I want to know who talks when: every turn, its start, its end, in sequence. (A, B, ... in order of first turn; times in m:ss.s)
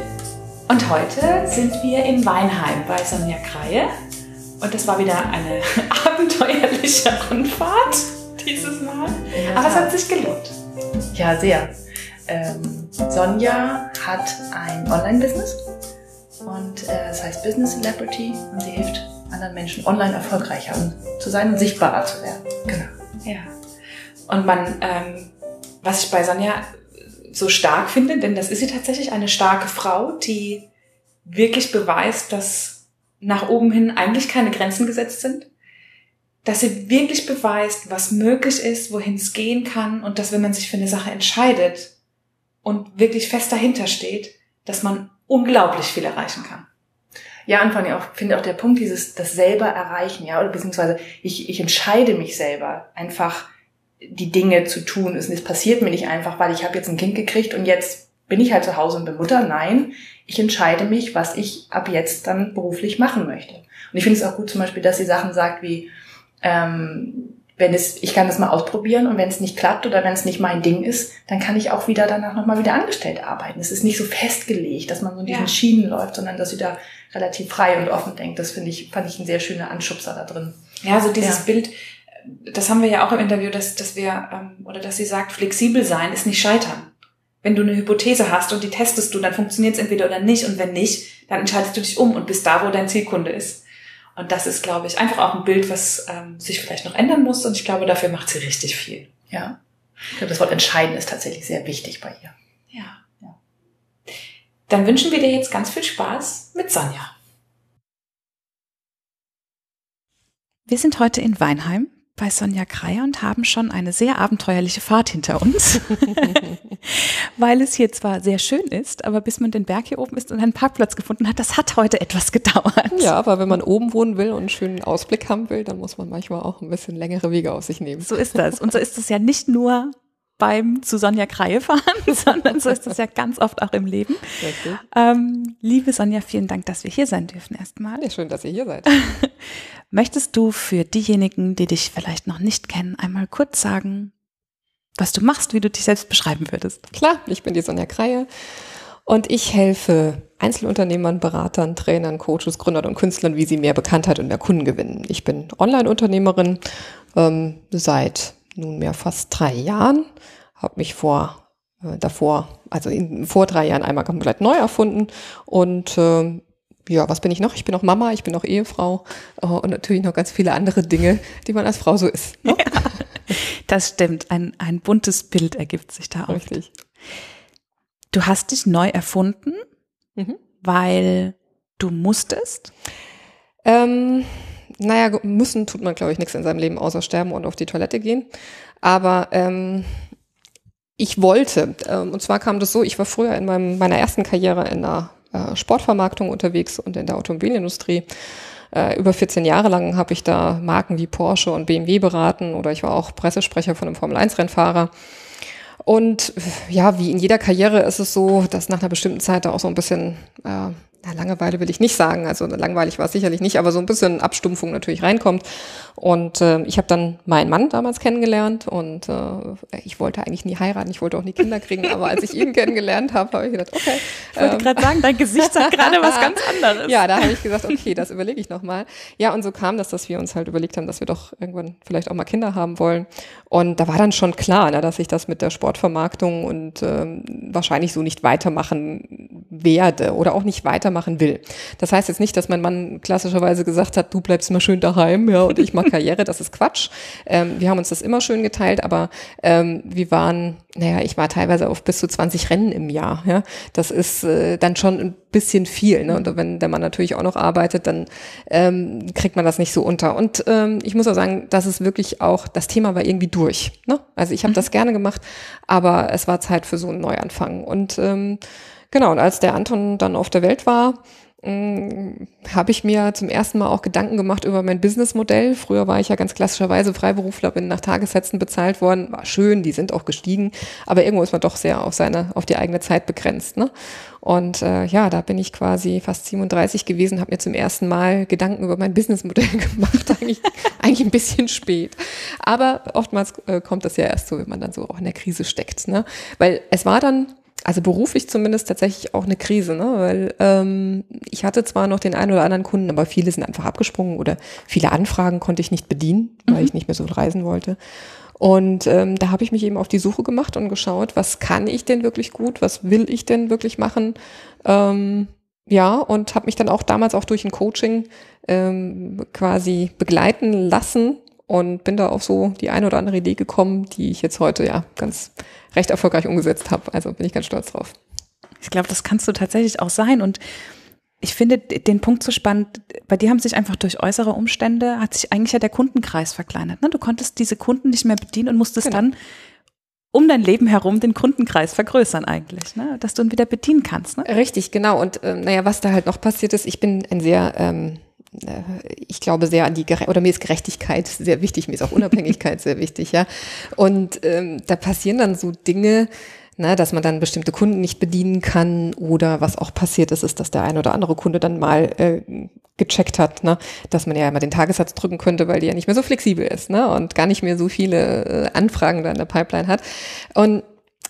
0:00.7-0:03.9 A
0:04.6-0:10.6 A
0:09.4-0:09.9 B
0:11.1-0:11.8 B
0:12.3-0:15.6 B
0:16.4-0:22.9 B
0:23.2-0:23.5 A
0:24.3-0:26.8 A
0:27.3-0:30.7 A
0:31.2-0:35.5 A
0:36.4-0:41.9 A
0:42.6-0:46.7 A
0:47.5-0:53.5 B
0:54.0-1:05.9 B
1:06.4-1:20.6 B
1:15.3-1:15.5 A
1:20.8-1:21.7 A
1:22.2-1:26.9 A
1:27.4-1:33.6 A
1:34.2-1:39.1 A
1:39.3-1:39.6 B
1:40.1-1:42.3 B
1:42.7-1:43.0 A
1:44.7-1:47.1 A
1:50.7-2:03.1 A
2:02.9-2:08.1 C
2:08.0-2:14.4 A
2:14.4-2:14.8 C
2:14.9-2:18.1 A
2:18.0-2:18.9 C
2:18.9-2:19.3 A
2:19.9-2:24.1 A
2:25.0-2:26.8 A
2:26.9-2:28.3 C
2:29.1-2:36.6 C
2:37.1-2:40.1 C
2:40.6-2:52.9 C
2:52.5-2:56.6 A
2:56.3-2:56.7 C
2:58.1-2:59.6 A
3:00.6-3:02.7 A
3:03.6-3:08.3 C
3:08.8-3:10.1 C
3:11.0-3:18.1 C
3:18.7-3:24.9 C
3:25.8-5:07.8 C
3:44.4-3:47.4 A
5:08.4-5:28.0 C
5:28.6-5:30.4 A
5:31.2-5:39.2 A
5:40.1-5:44.3 A
5:44.2-6:10.6 C